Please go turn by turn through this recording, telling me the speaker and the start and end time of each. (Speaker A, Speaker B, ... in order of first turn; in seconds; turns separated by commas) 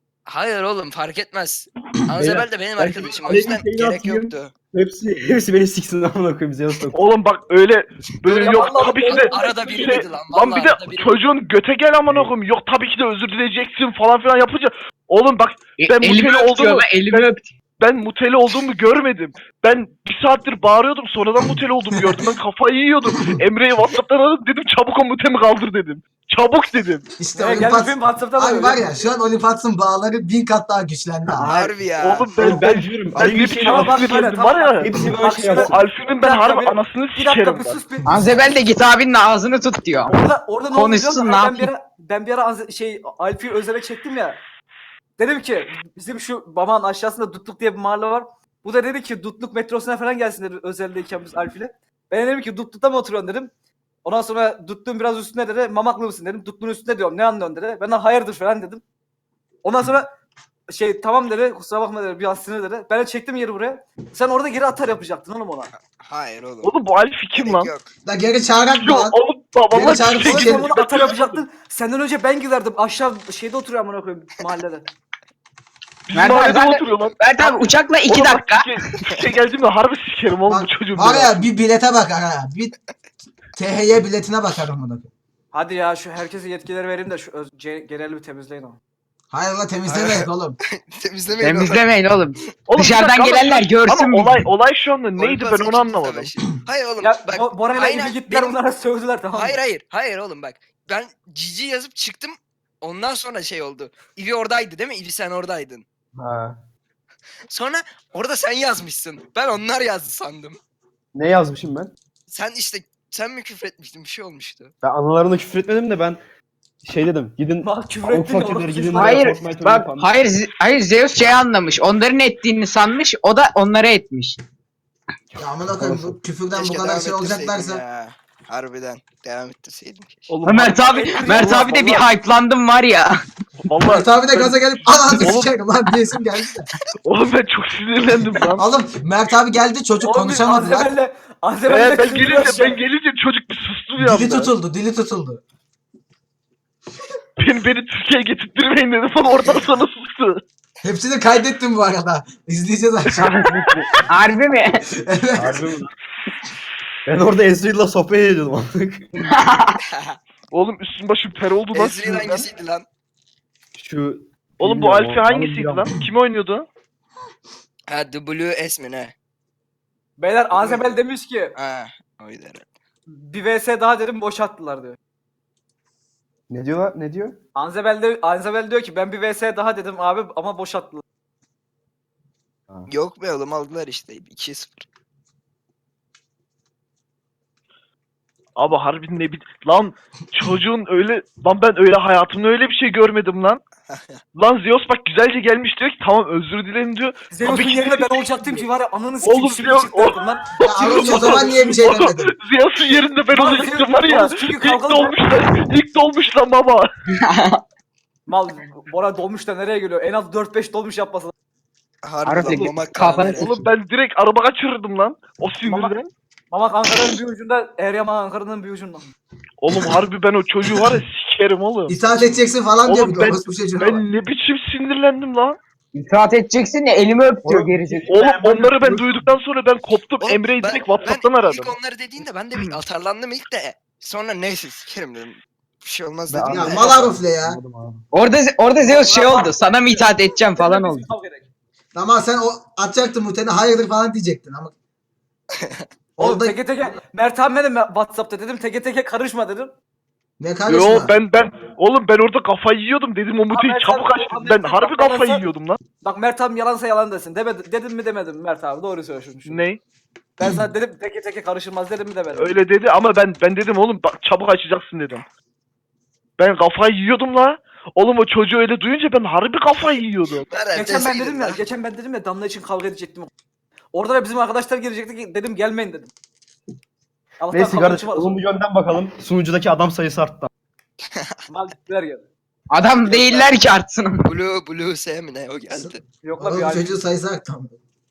Speaker A: 0.3-4.5, Speaker B: 2.1-7.0, Speaker C: 6.9-17.3, Speaker A: 8.3-11.1, Speaker D: 8.5-10.0, Speaker E: 15.8-17.5, Speaker C: 17.8-27.1, Speaker F: 27.2-31.7, Speaker D: 27.4-28.9, Speaker A: 31.4-32.6, Speaker C: 32.0-34.9, Speaker B: 32.4-34.1, Speaker D: 33.5-38.4, Speaker B: 34.8-35.7, Speaker C: 35.5-37.8, Speaker E: 38.1-41.7, Speaker D: 40.1-44.4, Speaker D: 45.2-53.5, Speaker D: 54.0-58.8, Speaker D: 59.6-60.1, Speaker D: 60.7-65.7, Speaker A: 65.8-66.7, Speaker C: 66.6-67.7, Speaker A: 67.4-67.9, Speaker F: 68.0-69.2, Speaker C: 68.8-71.4, Speaker F: 69.7-70.7, Speaker D: 70.2-74.9, Speaker C: 76.1-81.5, Speaker E: 76.1-79.0, Speaker F: 80.5-82.7, Speaker F: 83.5-85.1, Speaker D: 85.5-88.8, Speaker F: 89.3-90.6, Speaker A: 89.9-91.9, Speaker E: 91.4-94.4, Speaker C: 92.7-96.3, Speaker A: 95.2-98.6, Speaker D: 97.0-99.6, Speaker A: 99.3-105.8, Speaker B: 106.2-106.6, Speaker A: 107.5-110.6, Speaker B: 111.2-111.9, Speaker A: 112.3-114.7, Speaker B: 114.8-116.2, Speaker B: 116.8-120.2, Speaker D: 117.6-119.1, Speaker E: 118.9-124.4, Speaker F: 125.4-127.8, Speaker B: 125.7-126.2, Speaker A: 126.5-130.3, Speaker C: 130.3-132.0, Speaker E: 130.4-133.2, Speaker D: 130.9-132.0, Speaker C: 133.7-134.6, Speaker F: 133.9-136.7, Speaker C: 135.2-135.6, Speaker C: 137.0-138.6, Speaker F: 138.6-140.9, Speaker D: 140.0-142.8, Speaker C: 141.7-144.5, Speaker F: 144.0-145.4, Speaker C: 147.4-150.4, Speaker F: 150.8-153.3, Speaker E: 153.1-154.8, Speaker B: 153.5-153.8, Speaker F: 154.9-155.7, Speaker B: 155.4-155.9, Speaker B: 157.1-159.1, Speaker E: 159.2-159.8, Speaker C: 160.5-162.5, Speaker A: 161.7-162.9, Speaker B: 163.8-165.9, Speaker C: 164.6-166.7, Speaker A: 167.9-169.1, Speaker D: 170.2-171.6, Speaker A: 170.5-170.9, Speaker A: 171.6-172.7, Speaker D: 173.1-175.0, Speaker B: 176.5-177.4, Speaker D: 177.6-181.0, Speaker A: 182.9-184.8, Speaker C: 188.6-193.6, Speaker A: 193.9-194.2, Speaker C: 194.4-198.6, Speaker D: 197.3-201.4, Speaker C: 199.2-206.9, Speaker F: 200.6-202.3, Speaker D: 203.3-205.1, Speaker E: 207.2-207.6, Speaker D: 208.3-211.3, Speaker A: 212.0-213.5, Speaker E: 212.2-213.6, Speaker C: 213.4-216.1, Speaker D: 215.7-215.9, Speaker D: 216.5-219.1, Speaker C: 219.6-222.3, Speaker F: 221.9-224.0, Speaker C: 222.8-225.6, Speaker E: 225.9-228.1, Speaker B: 227.4-229.2, Speaker C: 228.1-231.8, Speaker A: 230.2-237.0, Speaker B: 236.3-238.0, Speaker F: 236.5-237.6, Speaker E: 238.1-241.1, Speaker D: 238.8-241.5, Speaker F: 241.9-244.7, Speaker F: 246.2-246.6, Speaker D: 246.2-249.7, Speaker F: 250.4-251.2, Speaker C: 250.7-255.8, Speaker D: 253.5-255.4, Speaker D: 256.0-259.6, Speaker C: 259.5-259.8, Speaker D: 260.4-262.5, Speaker F: 260.4-260.7, Speaker C: 262.3-265.2, Speaker C: 266.4-270.5, Speaker A: 270.5-271.6, Speaker D: 270.7-273.3, Speaker D: 273.9-276.1, Speaker D: 277.4-278.4, Speaker B: 277.5-280.5, Speaker D: 281.5-282.3, Speaker E: 282.7-284.3, Speaker A: 283.2-283.5, Speaker A: 284.2-286.0, Speaker F: 285.7-287.8, Speaker D: 286.2-287.0